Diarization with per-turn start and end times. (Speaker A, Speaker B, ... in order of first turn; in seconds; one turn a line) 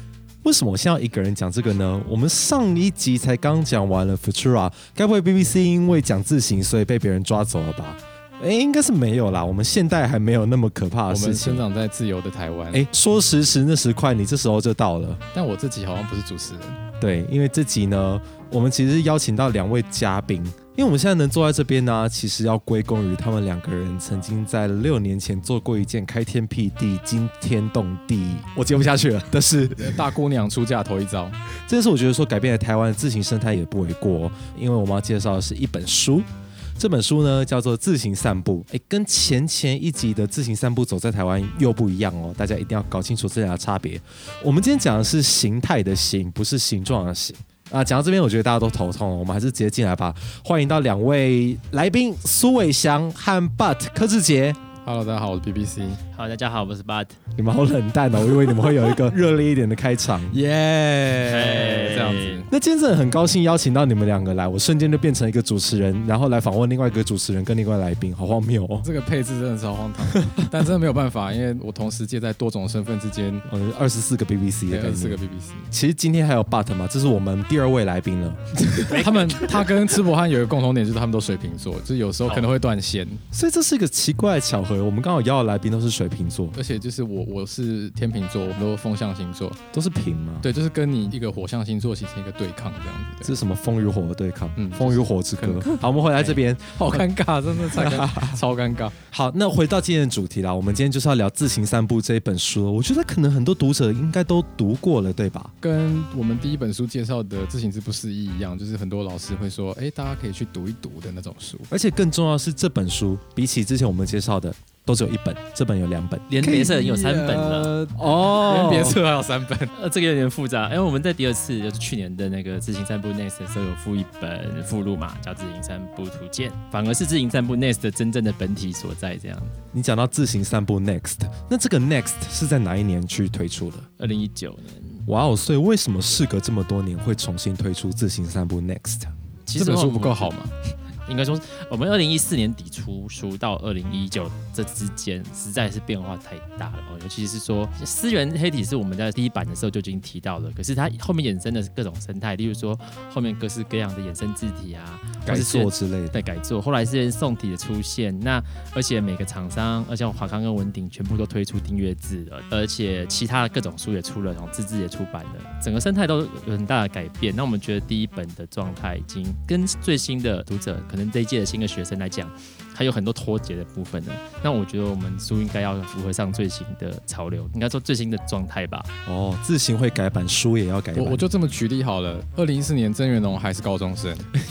Speaker A: 0.4-11.6
Speaker B: 11.1-12.8
Speaker A: 12.7-15.2
Speaker B: 15.3-16.8
Speaker A: 17.0-30.0
Speaker B: 29.8-31.4
Speaker A: 31.7-36.3
Speaker A: 36.8-54.6
Speaker B: 54.8-56.0
Speaker C: 56.1-57.2
Speaker A: 57.4-60.4
Speaker B: 60.3-62.5
Speaker C: 61.2-62.4
Speaker A: 62.5-68.9
Speaker B: 68.8-73.4
Speaker A: 70.1-70.5
Speaker A: 73.5-75.2
Speaker B: 74.7-75.7
Speaker A: 75.7-79.1
Speaker B: 78.8-83.2
Speaker C: 78.9-79.4
Speaker A: 83.3-86.6
Speaker B: 86.5-89.6
Speaker A: 89.7-90.5
Speaker B: 90.4-93.3
Speaker A: 93.2-97.0
Speaker B: 94.6-98.9
Speaker A: 97.6-98.4
Speaker A: 99.1-105.5
Speaker B: 105.6-111.7
Speaker A: 111.7-116.7
Speaker C: 116.3-117.7
Speaker B: 116.4-119.7
Speaker A: 118.0-119.0
Speaker C: 119.7-129.6
Speaker A: 129.7-133.9
Speaker C: 134.0-135.0
Speaker A: 135.1-139.1
Speaker C: 139.5-140.3
Speaker B: 139.6-140.5
Speaker C: 141.1-178.9
Speaker A: 155.2-156.1
Speaker A: 179.1-181.2
Speaker B: 180.9-184.3